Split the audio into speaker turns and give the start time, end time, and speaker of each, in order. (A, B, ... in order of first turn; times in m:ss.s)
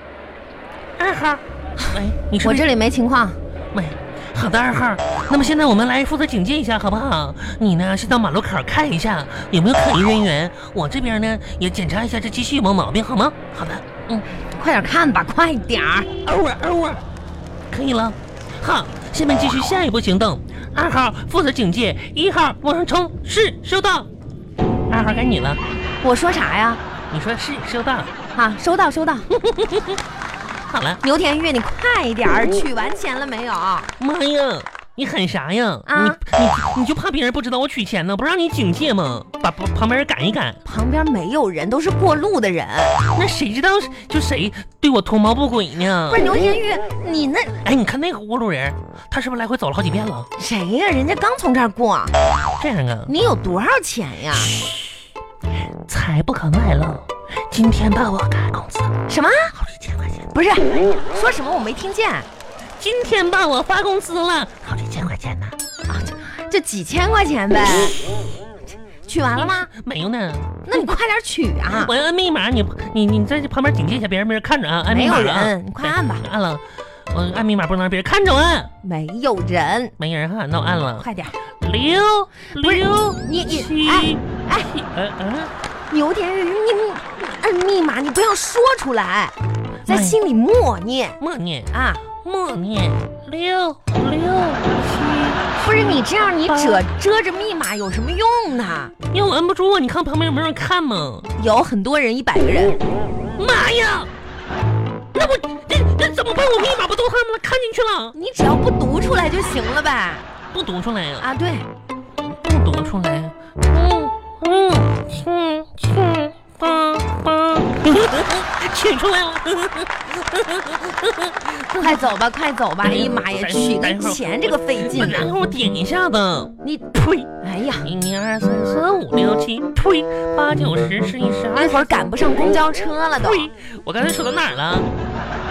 0:01.0-0:02.7 A
0:01.8-0:03.4 B
0:03.7-0:14.2 A
0:14.3-0:16.1 B
0:16.2-0:17.0 A
0:17.7-0:24.1 A
0:24.9-0:25.6 A
0:26.0-0:26.8 B
0:27.1-0:28.1 A
0:28.3-0:29.3 B
0:29.3-0:30.0 A
0:30.7-0:31.0 A
0:31.0-0:33.9 B
0:34.0-0:40.6 A
0:35.9-0:36.2 B
0:40.6-0:43.0 B
0:43.1-0:46.3 A
0:46.1-0:47.6 B
0:47.6-0:50.3 A
0:50.4-0:52.1 B
0:52.6-0:53.1 A
0:53.1-0:54.6 B
0:55.9-0:58.9 A
0:59.1-0:59.5 B
0:59.5-1:00.3 A
1:00.3-1:02.3 B
1:02.8-1:05.6 A
1:05.9-1:08.0 B
1:09.0-1:09.7 B
1:09.4-1:10.8 A
1:10.6-1:11.9 B
1:11.7-1:18.7 A
1:14.9-1:16.2 B
1:18.8-1:19.9 B
1:20.0-1:21.1 A
1:21.0-1:21.3 B
1:21.6-1:25.5 A
1:22.6-1:24.7 B
1:25.9-1:29.3 B
1:29.9-1:30.2 A
1:29.9-1:31.2 B
1:31.2-1:36.8 A
1:31.7-1:32.0 B
1:35.6-1:38.9 B
1:39.1-1:41.3 A
1:41.4-1:42.8 B
1:43.4-1:44.1 A
1:45.1-1:48.1 A
1:48.1-1:50.2 B
1:50.5-1:51.2 A
1:51.2-1:51.7 B
1:52.2-2:02.0 A
2:01.8-2:05.3 B
2:02.8-2:07.3 A
2:06.6-2:07.9 B
2:07.8-2:11.9 A
2:11.5-2:13.5 B
2:13.2-2:14.9 A